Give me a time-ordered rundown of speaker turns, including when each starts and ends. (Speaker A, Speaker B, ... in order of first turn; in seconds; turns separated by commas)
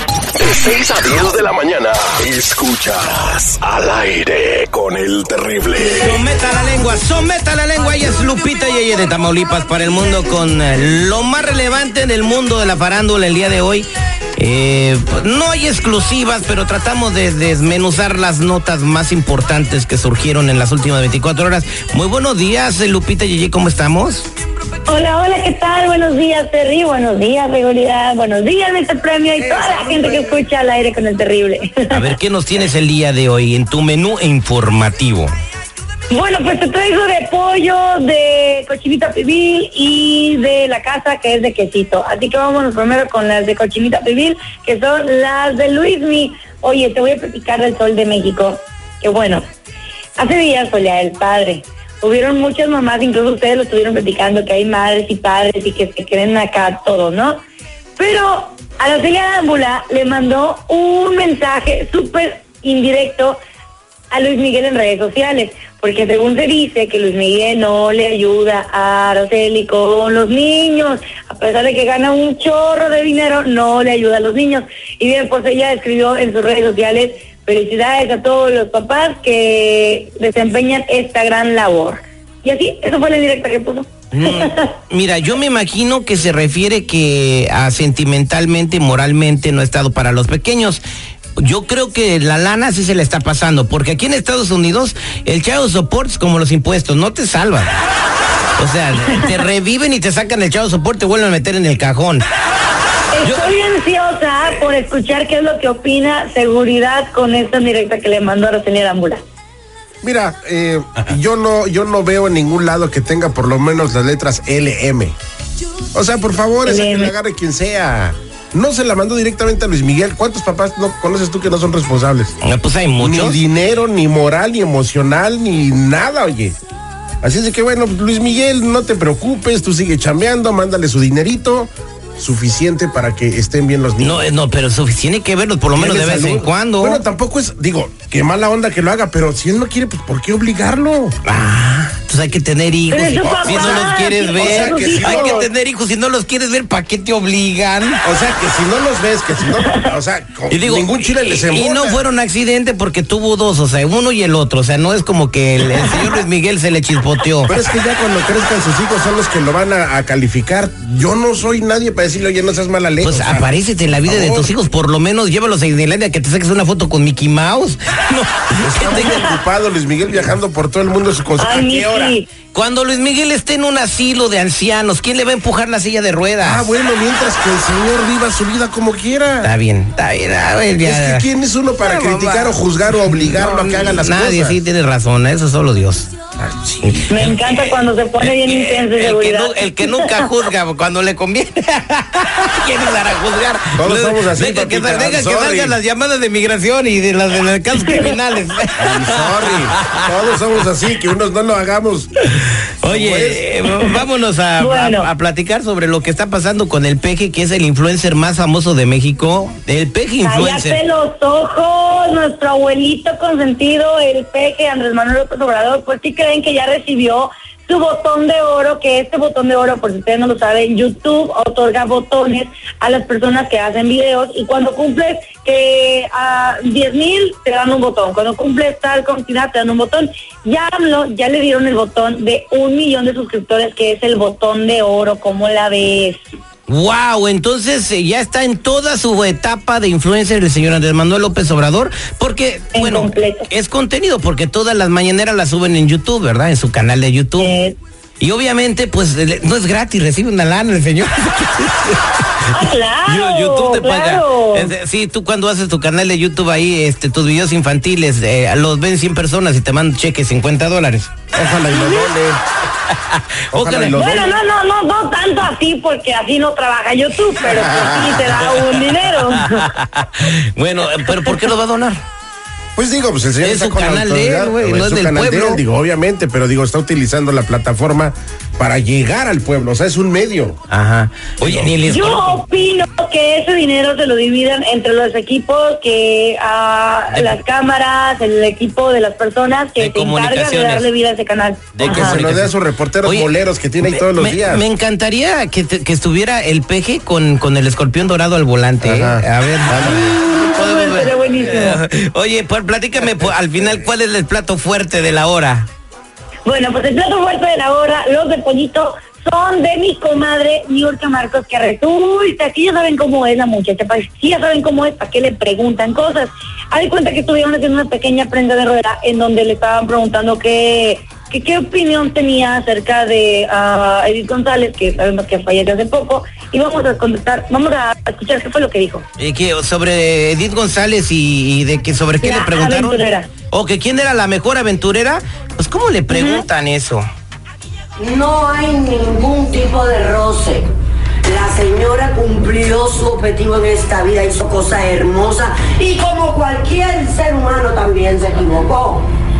Speaker A: 0.4-6.2, Speaker B: 5.8-24.3, Speaker C: 24.9-32.1, Speaker B: 29.6-30.0, Speaker B: 31.9-35.3, Speaker C: 36.1-49.4, Speaker C: 50.2-57.4, Speaker C: 58.0-63.4, Speaker C: 64.1-84.6, Speaker B: 84.1-90.8, Speaker B: 91.4-97.7, Speaker B: 98.6-102.2, Speaker C: 103.1-109.2, Speaker B: 103.2-103.5, Speaker D: 110.0-115.1, Speaker D: 115.9-122.3, Speaker C: 116.7-117.1, Speaker B: 122.4-123.4, Speaker D: 123.0-126.5, Speaker D: 127.2-134.2, Speaker B: 134.0-137.0, Speaker D: 135.8-141.1, Speaker B: 141.2-148.0, Speaker C: 142.9-145.5, Speaker D: 143.2-145.4, Speaker D: 148.0-152.0, Speaker B: 150.5-157.5, Speaker D: 157.5-163.5, Speaker B: 163.0-169.3, Speaker D: 164.0-164.5, Speaker D: 168.6-172.1, Speaker C: 171.4-172.3, Speaker B: 172.5-176.7, Speaker D: 176.4-179.5, Speaker B: 179.4-181.2, Speaker D: 180.8-184.6, Speaker B: 181.8-200.2, Speaker C: 187.1-190.2, Speaker D: 193.8-195.8, Speaker C: 197.8-198.1, Speaker D: 198.8-202.3, Speaker B: 202.4-210.8, Speaker D: 202.8-203.4, Speaker C: 204.6-205.1, Speaker C: 210.2-236.2, Speaker B: 236.7-247.5, Speaker C: 242.7-243.4, Speaker C: 247.4-247.8, Speaker B: 248.2-252.2, Speaker C: 252.5-254.7, Speaker B: 253.0-261.1, Speaker D: 261.3-262.4, Speaker C: 261.7-262.1, Speaker B: 262.9-264.3, Speaker D: 263.5-264.2, Speaker C: 263.9-269.7, Speaker D: 267.5-268.2, Speaker B: 268.2-272.0, Speaker D: 272.8-280.6, Speaker B: 273.4-275.6, Speaker B: 280.7-282.4, Speaker D: 281.4-281.7, Speaker C: 281.8-292.2, Speaker B: 287.1-287.4, Speaker B: 289.8-290.9, Speaker B: 291.7-305.7, Speaker D: 291.9-294.6, Speaker D: 298.8-300.1, Speaker C: 300.2-301.8, Speaker C: 306.4-329.0, Speaker B: 329.2-337.1, Speaker C: 332.2-333.3, Speaker C: 336.1-336.4, Speaker E: 338.0-340.7, Speaker E: 341.2-349.1